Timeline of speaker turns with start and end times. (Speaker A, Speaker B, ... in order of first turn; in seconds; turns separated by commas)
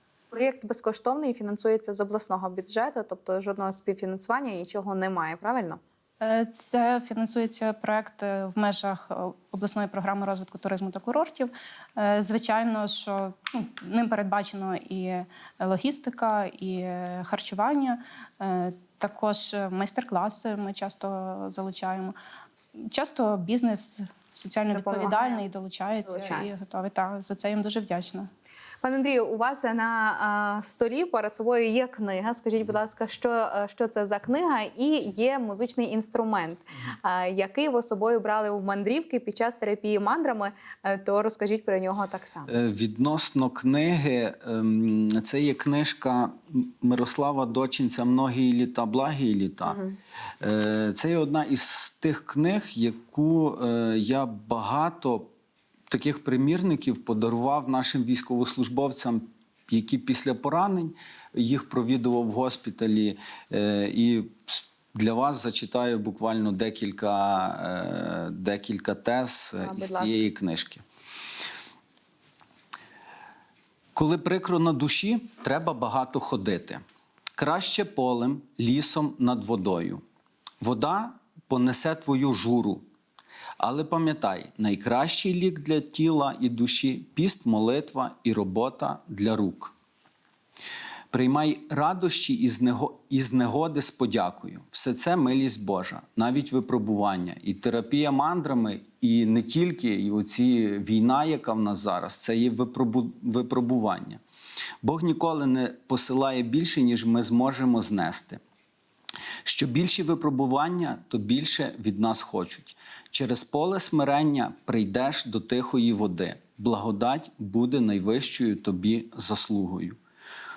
Speaker A: 0.3-5.8, Speaker B: 6.2-22.1, Speaker B: 22.8-28.3, Speaker A: 24.7-25.4, Speaker A: 26.1-26.5, Speaker A: 28.8-42.5, Speaker C: 42.5-49.8, Speaker A: 49.7-50.0, Speaker C: 50.4-55.3, Speaker C: 55.9-70.8, Speaker A: 69.6-70.2, Speaker C: 74.0-76.8, Speaker C: 77.4-80.0, Speaker C: 80.6-82.8, Speaker C: 83.6-89.7, Speaker C: 91.1-104.2, Speaker C: 104.8-108.4, Speaker C: 109.4-120.0